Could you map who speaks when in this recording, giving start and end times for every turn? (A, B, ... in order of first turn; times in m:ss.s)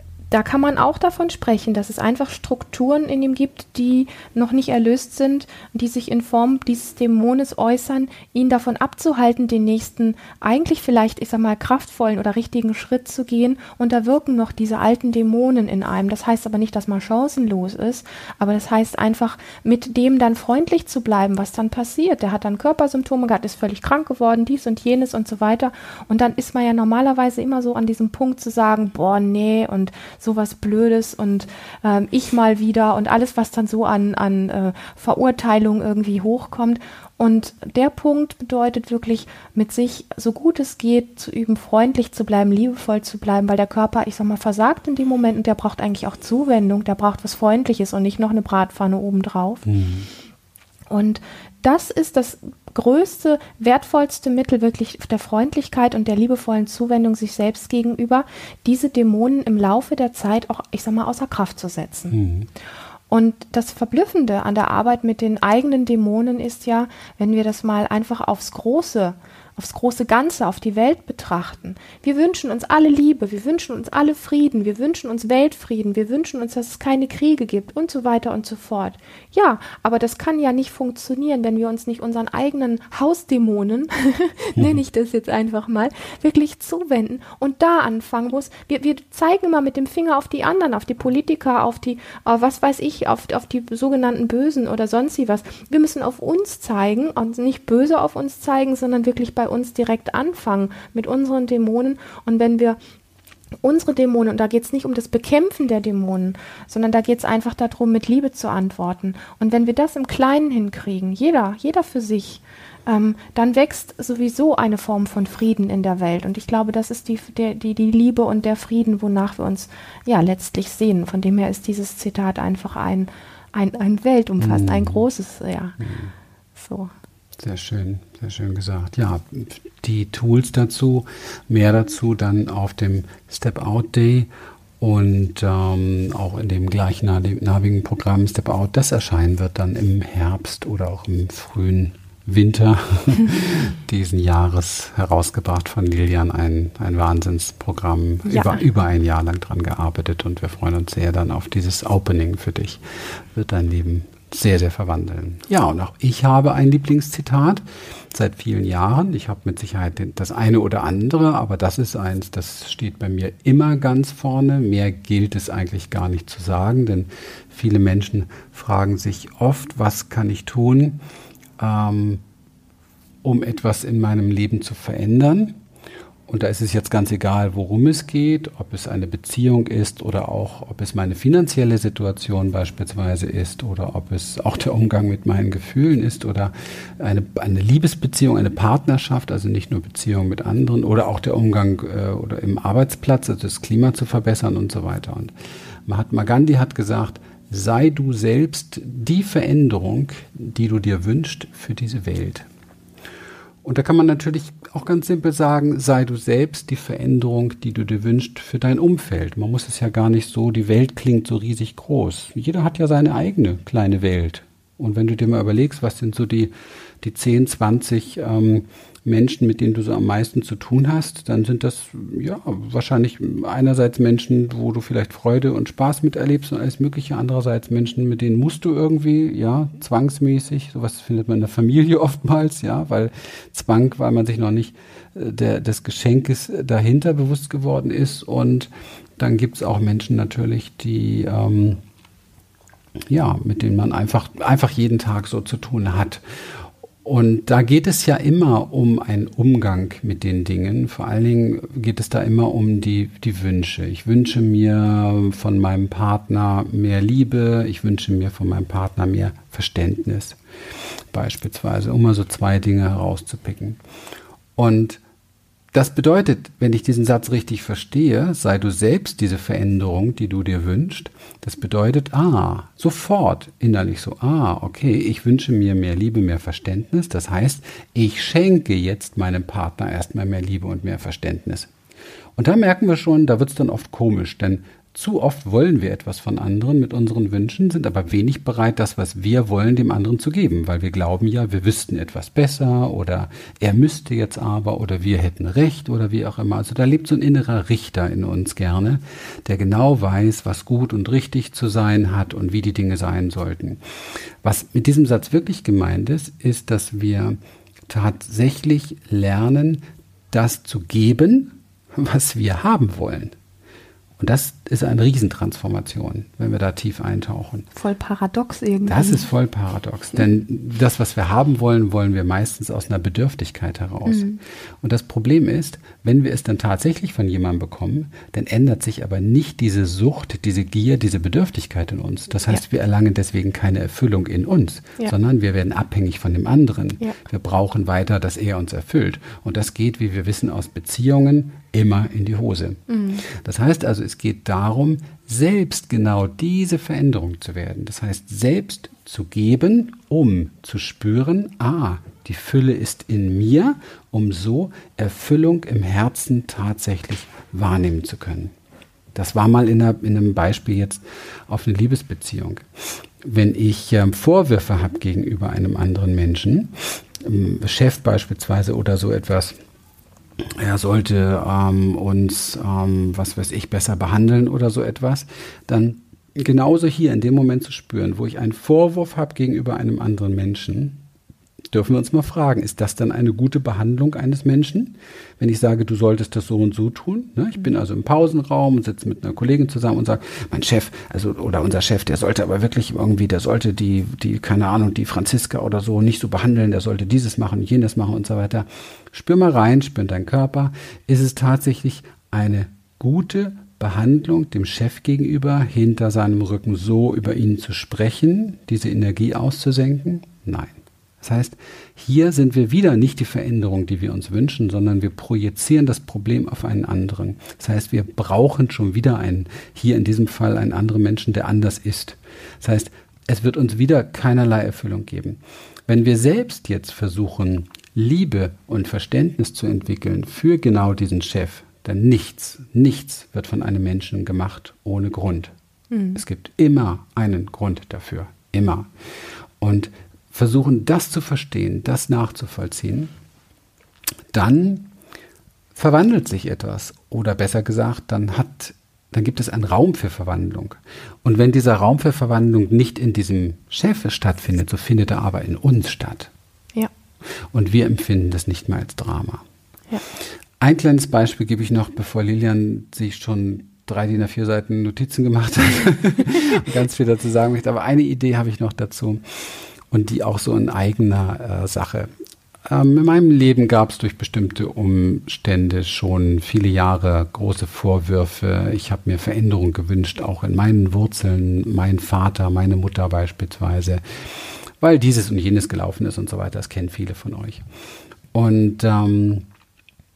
0:00.3-0:49.6 A
0:49.6-0:50.1 B
0:50.9-1:02.1 A
1:02.1-1:02.5 B
1:03.1-1:42.8 A
1:43.6-2:05.8 A
2:04.4-2:05.0 B
2:05.8-2:06.1 B
2:06.6-2:06.9 A
2:07.4-2:14.3 B
2:14.8-2:51.0 B
2:28.3-2:28.6 A
2:51.6-2:52.2 B
2:53.2-2:55.6 B
2:56.3-3:15.3 B
3:15.9-3:22.5 B
3:23.6-4:01.8 B
4:03.1-4:20.4 B
4:21.1-4:23.8 B
4:24.6-4:25.0 B
4:25.7-4:41.7 B
4:42.4-5:03.8 B
5:04.4-5:07.4 B
5:07.9-5:13.4 B
5:14.2-5:17.7 B
5:17.8-5:19.2 A
5:18.9-5:24.3 B
5:24.1-5:24.4 A
5:24.8-5:58.5 B
5:42.9-5:43.2 A
5:59.1-6:02.6 B
6:03.2-6:09.6 B
6:10.4-6:21.0 B
6:21.7-7:15.5 B
7:15.9-7:16.2 A
7:16.1-7:18.9 B
7:19.6-7:23.1 B
7:24.3-7:24.9 B
7:25.8-7:36.3 B
7:37.5-7:39.4 B
7:40.6-7:52.1 B
7:52.6-8:07.6 B
8:08.3-8:09.4 B